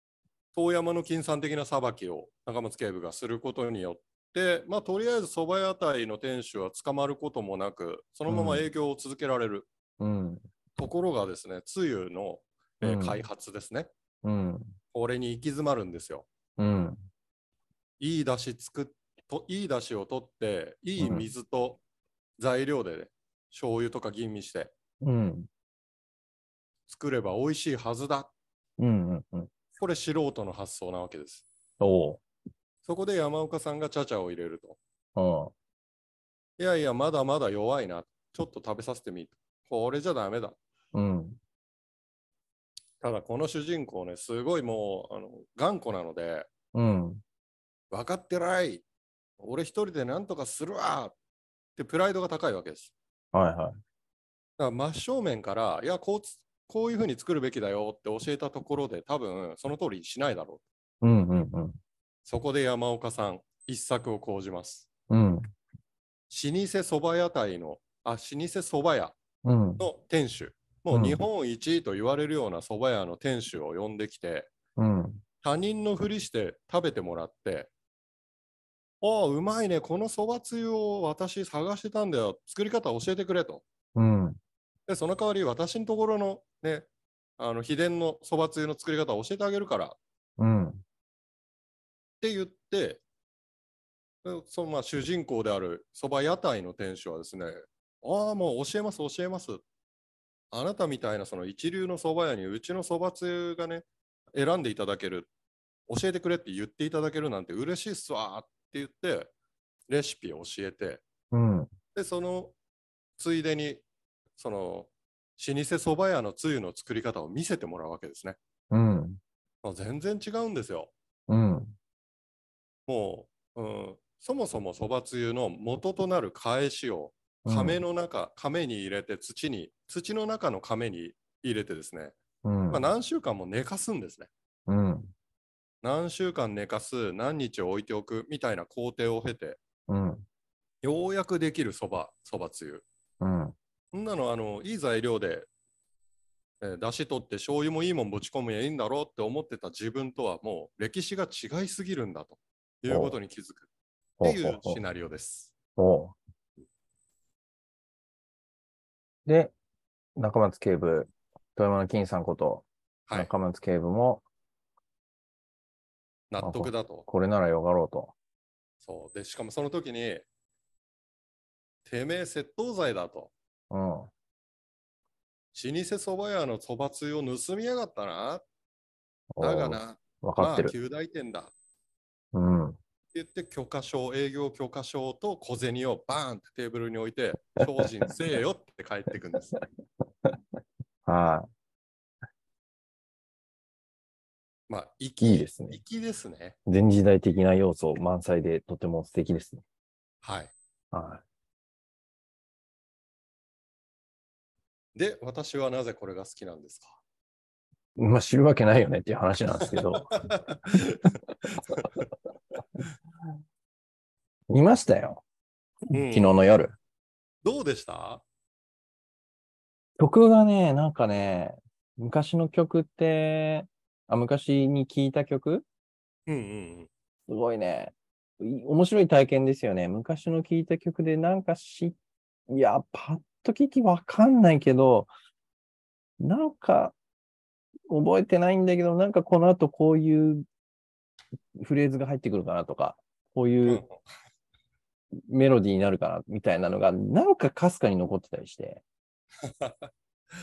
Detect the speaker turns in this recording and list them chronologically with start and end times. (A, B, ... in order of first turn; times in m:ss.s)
0:00.5-0:09.7 A
0:08.3-0:08.7 B
0:10.0-0:10.4 B
0:10.8-0:13.9 A
0:12.8-0:13.2 B
0:14.2-0:14.8 B
0:14.9-0:16.3 A
0:16.6-0:17.0 B
0:18.0-0:21.8 A
0:21.0-0:21.3 B
0:22.4-0:24.7 A
0:25.0-0:25.5 B
0:26.9-0:28.3 A
0:28.8-0:29.5 B
0:29.8-0:31.5 A
0:31.8-0:32.2 B
0:32.8-0:34.8 A
0:35.2-0:35.5 B
0:36.6-0:40.6 A
0:40.9-0:41.4 B
0:43.0-0:46.5 A
0:46.7-0:47.2 B
0:47.9-0:48.8 A
0:49.4-0:51.2 A
0:51.8-0:52.9 A
0:53.3-0:53.8 B
0:54.6-1:00.6 A
1:01.0-1:01.8 B
1:02.3-1:04.9 A
1:05.1-1:05.4 B
1:06.3-1:09.2 A
1:09.4-1:09.8 B
1:09.8-1:14.5 A
1:10.9-1:11.2 B
1:14.8-1:15.2 B
1:15.4-1:17.7 A
1:19.0-1:23.6 A
1:24.0-1:24.4 B
1:24.9-1:26.9 A
1:27.4-1:30.0 A
1:30.4-1:30.8 B
1:32.2-1:33.0 A
1:34.2-1:39.6 A
1:40.5-1:45.3 A
1:45.9-1:49.3 A
1:49.9-1:51.0 A
1:51.3-1:51.7 B
1:51.9-1:52.5 A
1:53.2-1:53.8 A
1:54.4-1:58.4 A
1:58.7-1:59.2 B
1:59.6-2:00.9 A
2:01.3-2:01.7 B
2:02.9-2:12.2 A
2:07.5-2:07.8 B
2:12.4-2:12.8 B
2:12.7-2:14.3 A
2:14.7-2:15.1 B
2:15.8-2:19.6 A
2:19.9-2:20.2 B
2:20.8-2:22.8 A
2:23.2-2:23.6 B
2:23.9-2:25.5 A
2:26.6-2:33.7 A
2:32.9-2:33.2 B
2:34.2-2:34.8 B
2:34.2-2:35.5 A
2:35.8-2:36.2 B
2:39.3-2:39.5 B
2:40.2-2:44.2 B
2:46.3-2:47.1 A
2:46.4-2:48.2 B
2:48.8-2:50.3 A
2:51.9-2:53.3 A
2:53.7-2:54.1 B
2:55.5-2:58.4 A
2:59.4-3:00.7 B
2:59.4-3:01.5 A
3:02.3-3:02.8 B
3:03.1-3:09.6 A
3:11.1-3:11.5 B
3:14.7-3:16.6 A
3:15.2-3:15.8 B
3:16.7-3:19.6 B
3:20.2-3:20.5 A
3:20.9-3:21.2 B
3:25.0-3:27.0 A
3:28.0-3:30.1 B
3:29.6-3:32.0 A
3:34.5-3:35.2 B
3:35.9-3:36.7 B
3:35.9-3:36.4 A
3:37.4-3:38.2 A
3:40.0-3:45.7 B
3:46.3-3:46.9 A
3:47.3-3:52.0 B
3:52.5-3:55.1 B
3:56.2-3:57.0 B
3:57.9-4:00.4 B
4:01.6-4:03.8 B
4:03.6-4:03.9 A
4:05.2-4:08.8 B
4:09.4-4:09.9 A